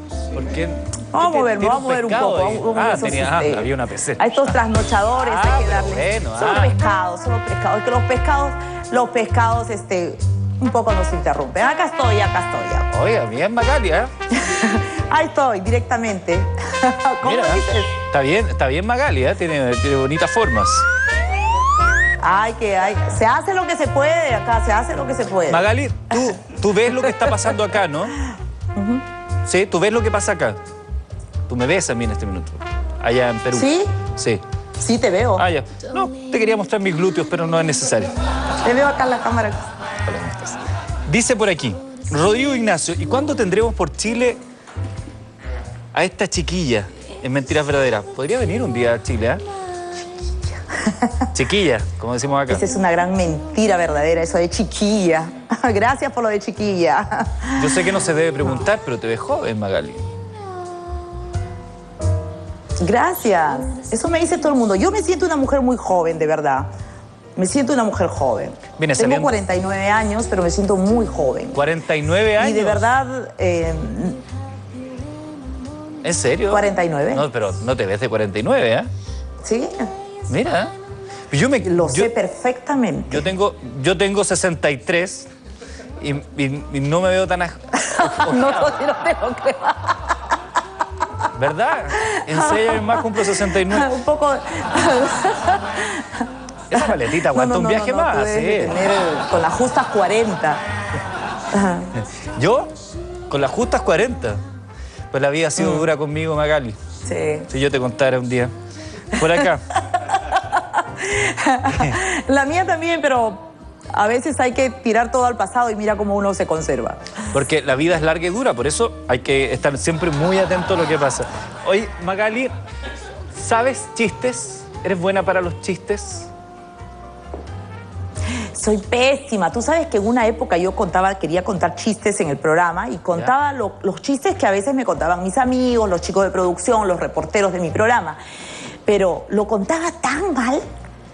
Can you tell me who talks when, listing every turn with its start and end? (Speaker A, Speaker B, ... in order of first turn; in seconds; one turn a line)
Speaker A: 0.3-4.3
Speaker B: 1.1-12.9
Speaker A: 5.2-6.8
Speaker A: 12.9-14.1
Speaker B: 14.4-17.9
Speaker A: 17.2-20.9
Speaker B: 22.2-25.7
Speaker A: 25.5-28.1
Speaker B: 28.8-29.0
Speaker A: 29.5-30.6
Speaker A: 31.5-34.4
Speaker B: 33.5-33.9
Speaker B: 34.8-35.5
Speaker A: 35.4-38.1
Speaker B: 38.6-39.7
Speaker A: 40.1-44.4
Speaker A: 45.9-49.4
Speaker A: 51.3-52.6
Speaker B: 52.5-57.8
Speaker A: 57.6-60.0
Speaker B: 62.8-66.7
Speaker B: 67.4-71.6
Speaker A: 68.8-69.3
Speaker A: 71.5-72.9
Speaker B: 72.4-74.2
Speaker A: 76.0-78.9
Speaker B: 76.5-77.3
Speaker B: 79.4-79.9
Speaker A: 80.3-80.7
Speaker A: 81.3-82.1
Speaker B: 81.6-83.3
Speaker A: 83.1-85.3
Speaker A: 86.0-88.7
Speaker B: 87.9-90.0
Speaker A: 91.3-93.9
Speaker B: 92.3-93.0
Speaker B: 93.7-96.0
Speaker A: 96.7-98.8
Speaker B: 96.7-100.6
Speaker B: 101.5-101.9
Speaker A: 102.4-102.7
Speaker A: 103.3-104.4
Speaker A: 105.1-106.8
Speaker B: 105.6-105.8
Speaker B: 107.0-107.5
Speaker A: 107.5-108.5
Speaker A: 109.1-109.6
Speaker B: 111.0-117.0
Speaker A: 117.3-122.5
Speaker A: 123.3-126.3
Speaker B: 128.6-138.2
Speaker B: 138.9-140.7